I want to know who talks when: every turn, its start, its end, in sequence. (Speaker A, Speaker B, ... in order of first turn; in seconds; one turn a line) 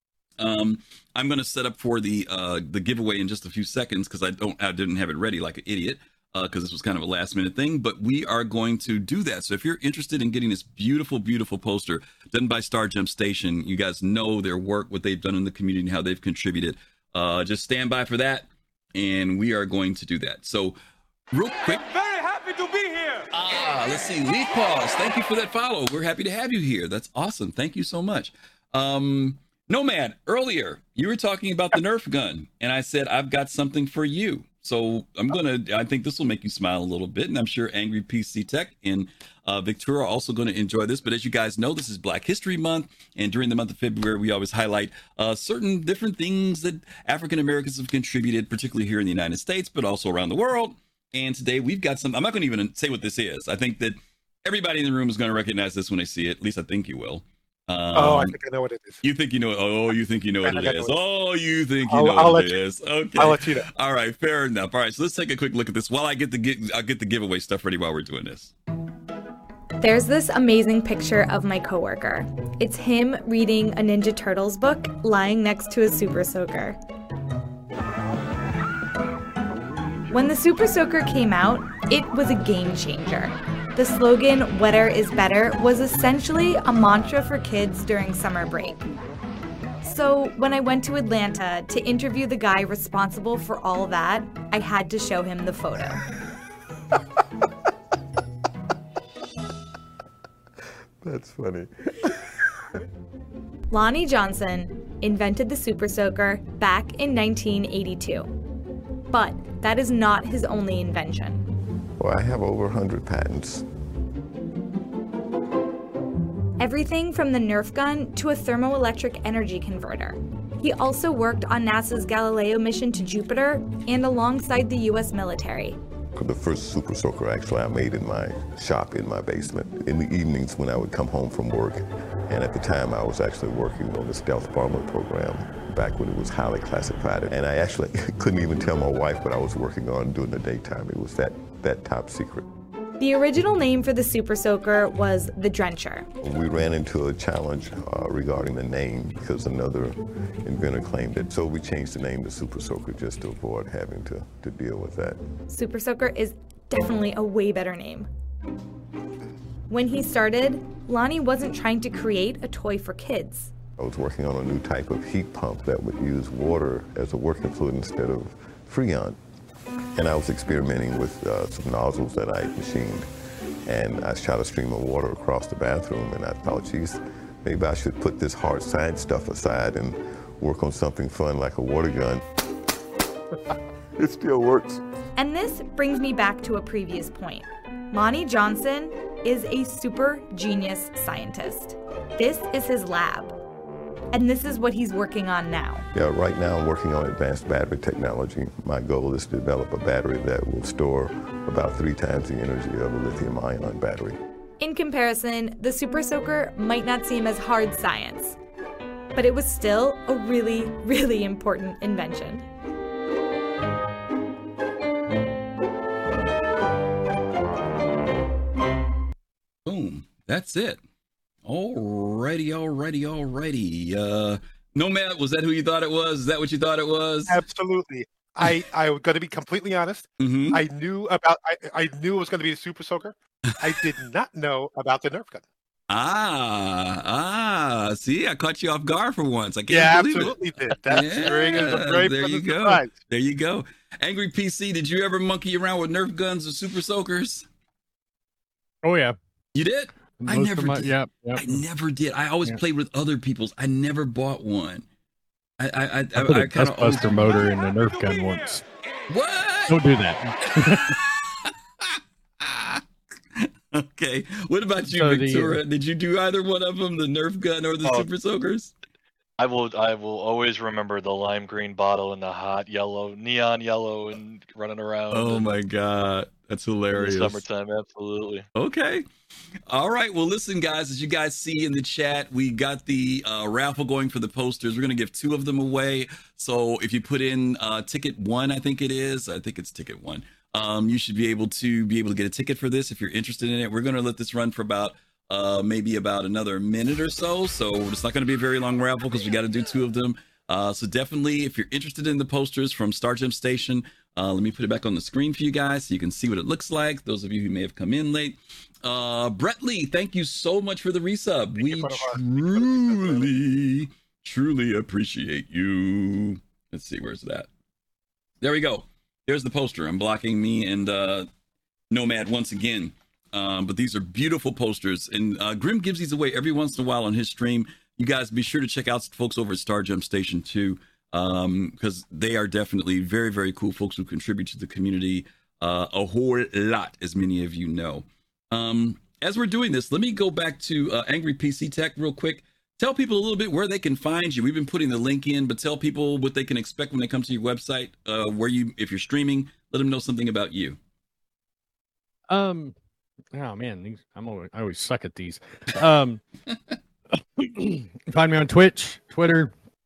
Speaker A: 0.4-20.8
Speaker A: 21.3-22.1
Speaker A: 23.3-58.4
Speaker B: 58.0-59.0
Speaker A: 59.0-68.5
Speaker B: 60.5-60.9
Speaker B: 61.9-62.5
Speaker B: 63.2-63.7
Speaker C: 69.8-76.8
Speaker C: 80.1-88.8
Speaker C: 89.8-96.0
Speaker D: 101.0-102.3
Speaker C: 103.7-108.3
Speaker C: 109.1-111.5
Speaker D: 112.0-113.7
Speaker C: 116.6-125.8
Speaker D: 126.2-142.5
Speaker C: 143.0-146.1
Speaker D: 146.2-155.2
Speaker C: 155.5-158.1
Speaker C: 159.7-163.5
Speaker D: 163.8-169.2
Speaker D: 169.9-173.1
Speaker D: 173.7-182.2
Speaker D: 184.0-184.8
Speaker C: 185.2-193.3
Speaker C: 194.1-195.8
Speaker D: 195.9-204.2
Speaker C: 204.6-208.4
Speaker C: 209.2-212.5
Speaker A: 219.7-220.8
Speaker A: 221.4-227.4
Speaker B: 227.3-235.4
Speaker A: 230.2-230.6
Speaker A: 235.9-240.4
Speaker B: 239.7-242.9
Speaker A: 240.9-247.5
Speaker E: 248.8-249.2
Speaker A: 249.5-254.8
Speaker E: 250.2-251.6
Speaker A: 255.6-257.5
Speaker E: 256.2-258.6
Speaker A: 259.1-259.8
Speaker E: 259.7-261.0
Speaker A: 260.4-268.7
Speaker E: 264.9-265.6
Speaker F: 269.4-275.4
Speaker A: 275.1-277.4
Speaker F: 277.0-278.5
Speaker A: 278.6-279.1
Speaker A: 279.6-317.5
Speaker B: 311.6-313.3
Speaker A: 318.4-321.3
Speaker A: 321.9-350.8
Speaker E: 352.3-352.8
Speaker E: 353.3-356.2
Speaker E: 357.4-359.5